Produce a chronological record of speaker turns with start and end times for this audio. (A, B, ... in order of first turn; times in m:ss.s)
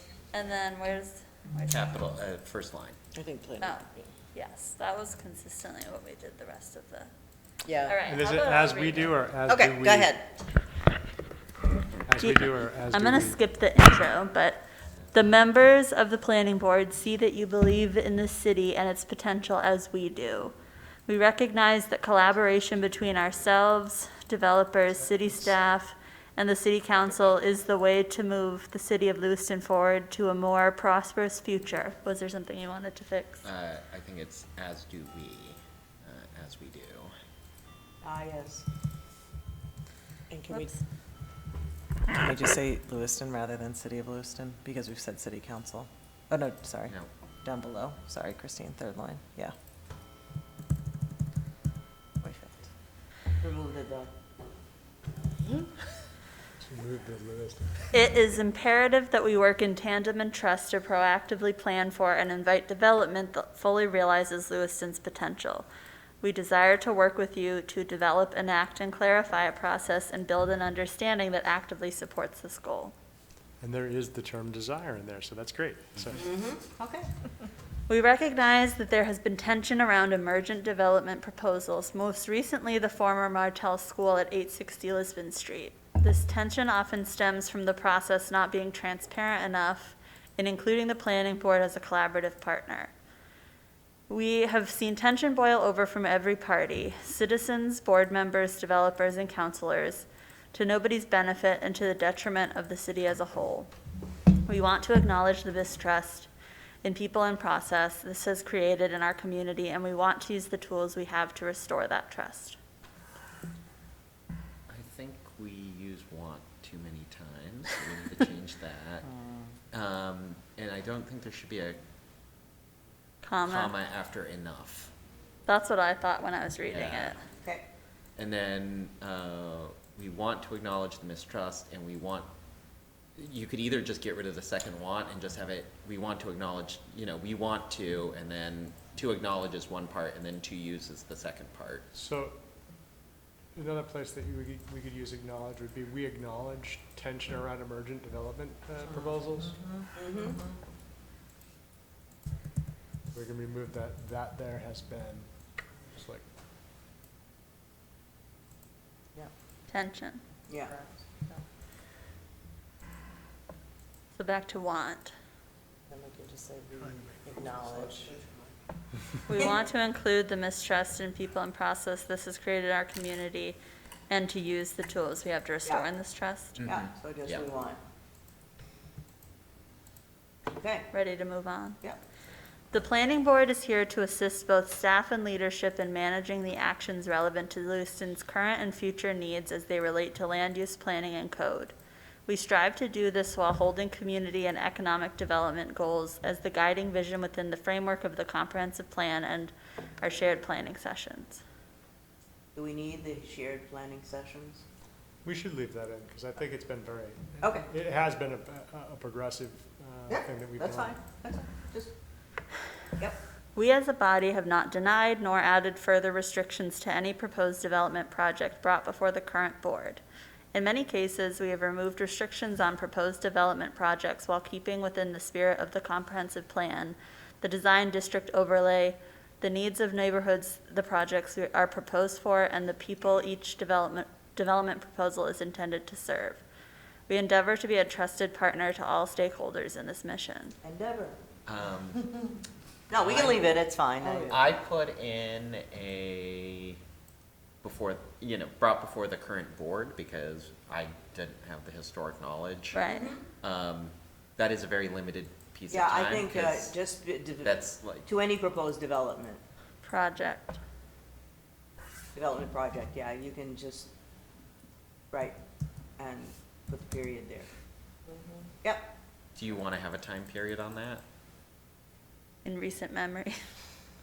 0:00.3-0:01.9 A
0:01.7-0:03.0 B
0:03.2-0:03.7 C
0:03.6-0:07.1 A
0:07.7-0:07.9 C
0:07.8-0:09.2 A
0:08.0-0:10.2 D
0:09.5-0:10.2 C
0:12.1-0:13.4 D
0:12.2-0:14.6 A
0:15.1-0:20.5 A
0:21.1-0:33.5 A
0:27.0-0:27.3 B
0:33.4-0:37.1 B
0:38.0-0:38.6 C
0:40.3-0:40.7 E
0:42.1-0:49.6 E
0:52.2-0:52.7 E
0:53.4-0:54.1 C
0:56.6-0:57.9 D
0:57.9-1:05.7 A
1:06.2-1:12.9 A
1:13.6-1:16.3 D
1:16.2-1:17.1 C
1:17.9-1:32.9 A
1:34.1-1:43.7 A
1:44.5-1:46.3 A
1:46.8-1:52.6 A
1:54.7-1:59.1 B
1:59.7-2:01.8 B
2:03.2-2:03.7 A
2:03.5-2:04.9 B
2:05.5-2:07.2 A
2:06.7-2:07.2 B
2:08.2-2:12.3 B
2:13.2-2:21.9 B
2:21.9-2:22.4 D
2:23.6-2:29.6 D
2:28.9-2:30.5 E
2:30.0-2:30.4 C
2:33.1-2:35.3 D
2:35.9-2:36.2 D
2:39.7-2:40.2 A
2:40.5-2:40.7 C
2:40.6-2:41.4 E
2:44.2-2:45.1 A
2:45.9-2:48.3 E
2:49.3-2:53.6 A
2:54.1-2:56.6 A
2:56.6-2:57.5 B
2:56.6-2:57.8 C
3:00.5-3:00.9 C
3:00.9-3:01.8 A
3:02.7-3:11.8 A
3:12.3-3:21.4 A
3:22.6-3:24.6 C
3:25.2-3:31.0 D
3:27.4-3:27.7 C
3:30.1-3:31.9 C
3:33.6-3:40.0 A
3:40.5-3:56.4 A
3:57.1-4:00.6 A
4:00.6-4:01.2 C
4:01.5-4:02.1 B
4:02.9-4:04.4 C
4:03.0-4:03.4 B
4:04.2-4:06.8 B
4:07.6-4:12.8 B
4:12.7-4:13.2 A
4:12.9-4:13.2 C
4:13.4-4:16.8 B
4:15.7-4:19.4 C
4:17.4-4:18.1 B
4:19.8-4:20.6 A
4:22.1-4:23.9 C
4:25.1-4:25.4 C
4:26.0-4:27.5 C
4:28.6-4:28.9 C
4:29.4-4:31.0 B
4:32.4-4:33.4 A